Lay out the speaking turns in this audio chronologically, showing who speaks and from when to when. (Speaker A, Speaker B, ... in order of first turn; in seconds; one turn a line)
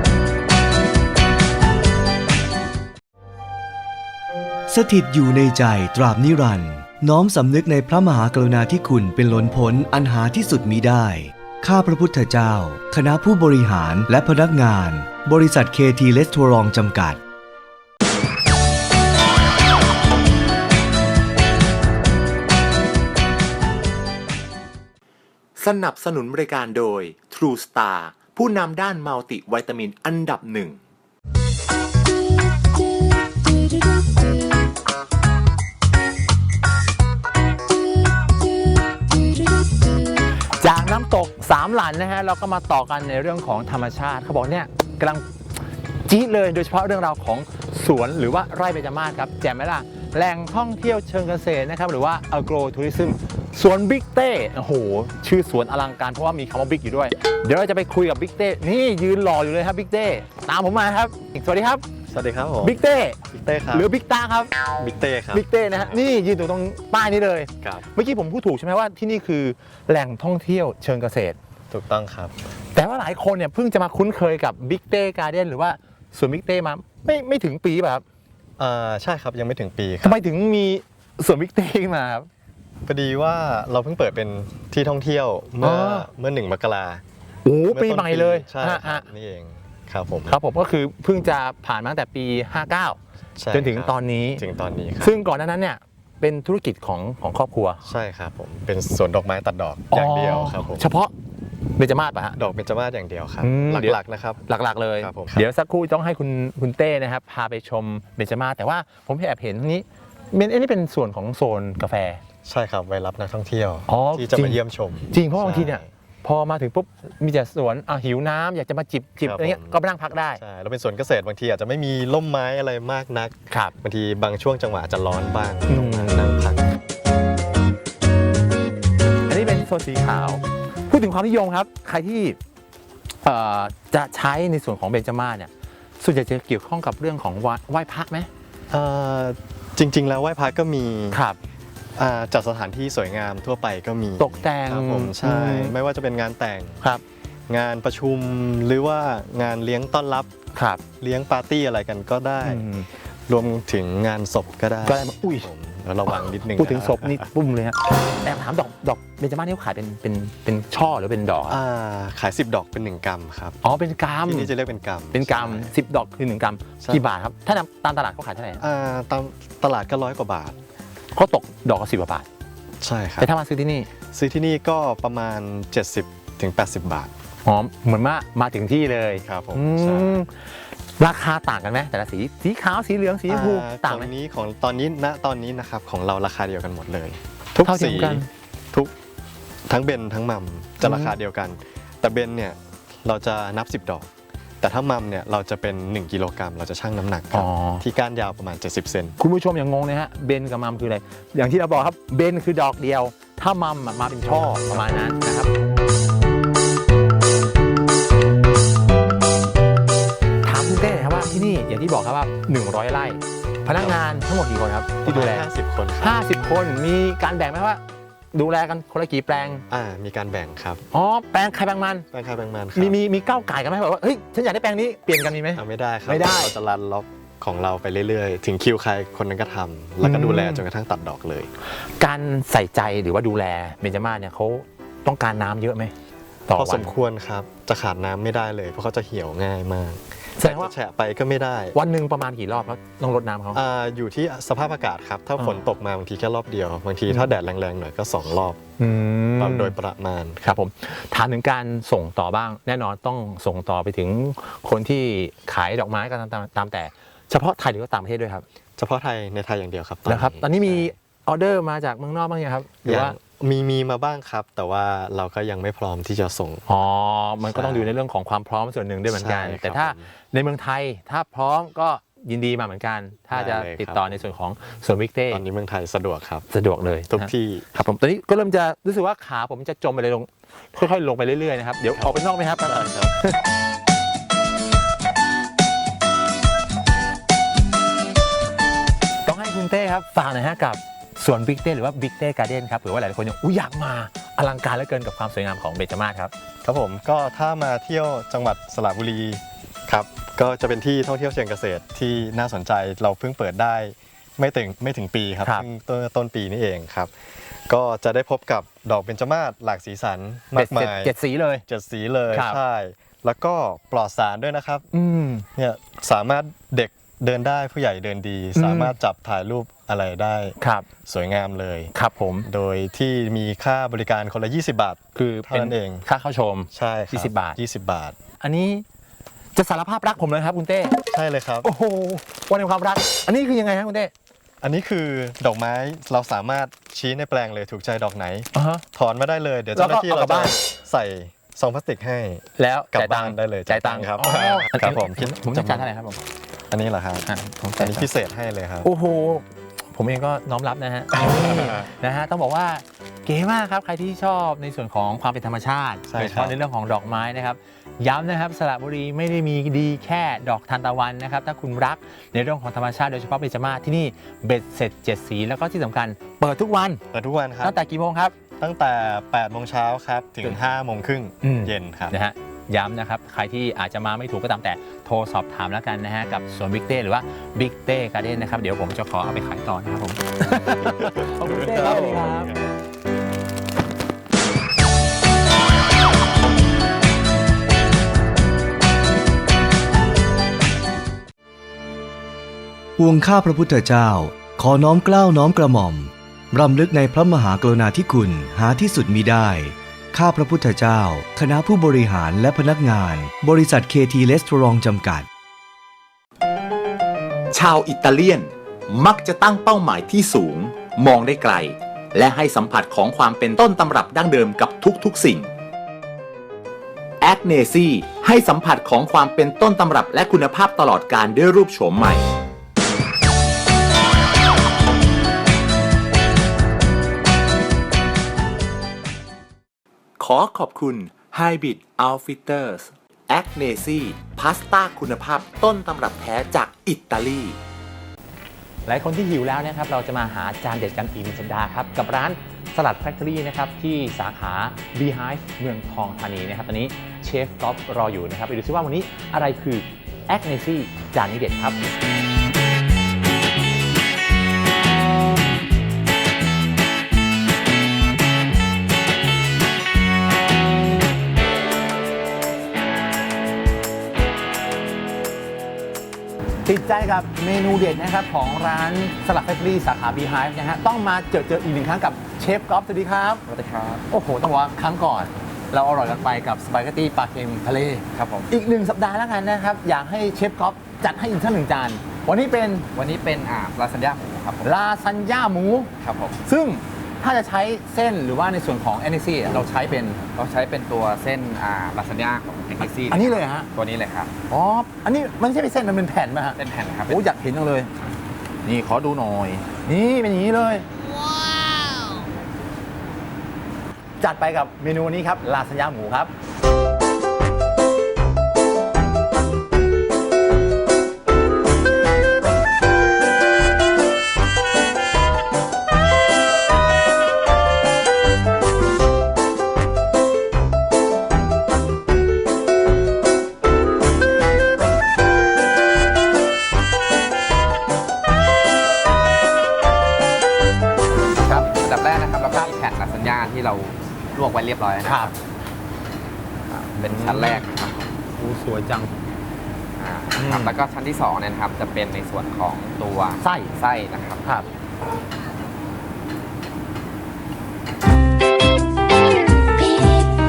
Speaker A: 4.7-17.2
Speaker B: 25.6-30.8
Speaker C: 40.6-45.2
Speaker C: 46.1-61.8
Speaker D: 62.1-62.8
Speaker C: 62.6-63.2
Speaker D: 63.3-63.9
Speaker C: 63.7-64.5
Speaker D: 64.8-66.0
Speaker C: 65.3-71.4
Speaker D: 71.7-72.3
Speaker C: 72.7-78.0
Speaker D: 78.6-80.2
Speaker C: 80.0-82.3
Speaker D: 82.8-87.0
Speaker C: 85.6-86.1
Speaker C: 87.4-89.0
Speaker D: 87.7-90.4
Speaker C: 90.3-93.0
Speaker D: 93.4-95.2
Speaker C: 93.5-94.4
Speaker C: 95.0-97.8
Speaker D: 97.8-100.8
Speaker C: 99.9-101.1
Speaker C: 101.8-102.4
Speaker D: 102.3-104.4
Speaker C: 103.4-112.2
Speaker D: 105.0-105.5
Speaker D: 112.4-115.9
Speaker C: 113.9-114.6
Speaker C: 115.1-120.4
Speaker D: 119.2-119.8
Speaker D: 120.3-126.6
Speaker C: 125.7-126.3
Speaker C: 129.3-132.4
Speaker C: 133.2-138.3
Speaker D: 138.7-141.2
Speaker C: 141.1-141.4
Speaker D: 141.9-146.8
Speaker C: 144.2-145.7
Speaker D: 147.5-150.3
Speaker C: 150.5-150.8
Speaker D: 151.0-152.7
Speaker C: 152.4-152.9
Speaker D: 153.3-157.3
Speaker C: 154.8-155.5
Speaker C: 156.1-161.6
Speaker D: 161.5-163.6
Speaker C: 163.6-164.5
Speaker D: 164.2-165.7
Speaker C: 165.1-168.6
Speaker D: 168.6-170.6
Speaker C: 171.2-172.2
Speaker D: 172.8-173.3
Speaker C: 173.2-173.9
Speaker D: 174.1-177.1
Speaker C: 177.4-180.4
Speaker D: 179.2-180.2
Speaker C: 181.0-184.1
Speaker D: 183.3-188.9
Speaker C: 187.6-188.3
Speaker D: 189.7-194.1
Speaker C: 190.8-191.1
Speaker D: 194.6-199.2
Speaker C: 197.3-197.8
Speaker C: 199.2-205.5
Speaker C: 210.4-215.5
Speaker D: 215.0-216.2
Speaker C: 216.0-217.8
Speaker C: 218.3-219.6
Speaker D: 219.6-220.8
Speaker C: 220.9-222.1
Speaker D: 222.1-223.0
Speaker C: 222.8-226.5
Speaker D: 225.5-231.5
Speaker C: 230.0-230.6
Speaker C: 232.0-235.9
Speaker C: 236.5-236.9
Speaker D: 236.5-241.8
Speaker C: 240.4-240.7
Speaker C: 241.7-243.6
Speaker D: 243.5-248.6
Speaker C: 248.8-249.7
Speaker D: 249.4-250.4
Speaker C: 250.4-258.4
Speaker D: 258.8-260.9
Speaker C: 260.1-263.1
Speaker D: 262.8-266.6
Speaker C: 266.7-275.4
Speaker D: 267.4-267.9
Speaker D: 269.1-270.1
Speaker D: 273.3-274.3
Speaker D: 275.3-276.5
Speaker C: 276.5-283.3
Speaker D: 277.1-277.7
Speaker D: 281.9-283.1
Speaker C: 289.2-296.3
Speaker D: 296.6-307.1
Speaker D: 307.7-311.1
Speaker C: 310.5-311.6
Speaker D: 311.7-314.9
Speaker C: 312.3-312.6
Speaker C: 314.9-315.4
Speaker D: 315.5-321.9
Speaker C: 318.6-318.9
Speaker C: 320.6-320.9
Speaker C: 321.9-322.5
Speaker D: 322.4-326.1
Speaker C: 325.1-327.6
Speaker D: 326.7-328.2
Speaker C: 328.4-328.8
Speaker C: 329.6-330.9
Speaker D: 331.1-331.7
Speaker C: 331.6-334.1
Speaker D: 334.6-345.9
Speaker C: 338.5-338.8
Speaker C: 339.7-340.5
Speaker C: 342.6-346.2
Speaker D: 346.7-347.3
Speaker C: 347.2-348.1
Speaker D: 347.8-348.9
Speaker C: 348.8-367.0
Speaker D: 351.1-351.9
Speaker D: 356.1-356.6
Speaker D: 367.1-367.8
Speaker C: 367.6-368.3
Speaker D: 368.6-372.1
Speaker C: 371.4-382.5
Speaker D: 380.8-382.7
Speaker A: 393.0-405.3
Speaker B: 407.5-415.5
Speaker B: 417.2-422.3
Speaker B: 430.2-437.6
Speaker C: 438.9-451.9
Speaker C: 466.6-473.4
Speaker E: 473.4-474.0
Speaker C: 474.1-482.9
Speaker E: 478.1-478.5
Speaker E: 482.9-484.7
Speaker C: 484.6-485.9
Speaker E: 486.0-486.4
Speaker C: 486.4-490.2
Speaker E: 490.3-494.3
Speaker C: 492.8-493.7
Speaker C: 494.5-497.9
Speaker E: 496.6-497.2
Speaker C: 498.6-500.9
Speaker C: 504.2-506.3
Speaker E: 531.2-535.3
Speaker C: 535.0-535.3
Speaker C: 536.7-537.6
Speaker E: 537.0-538.0
Speaker C: 538.4-539.1
Speaker E: 540.0-544.4
Speaker C: 540.4-540.7
Speaker C: 543.4-543.7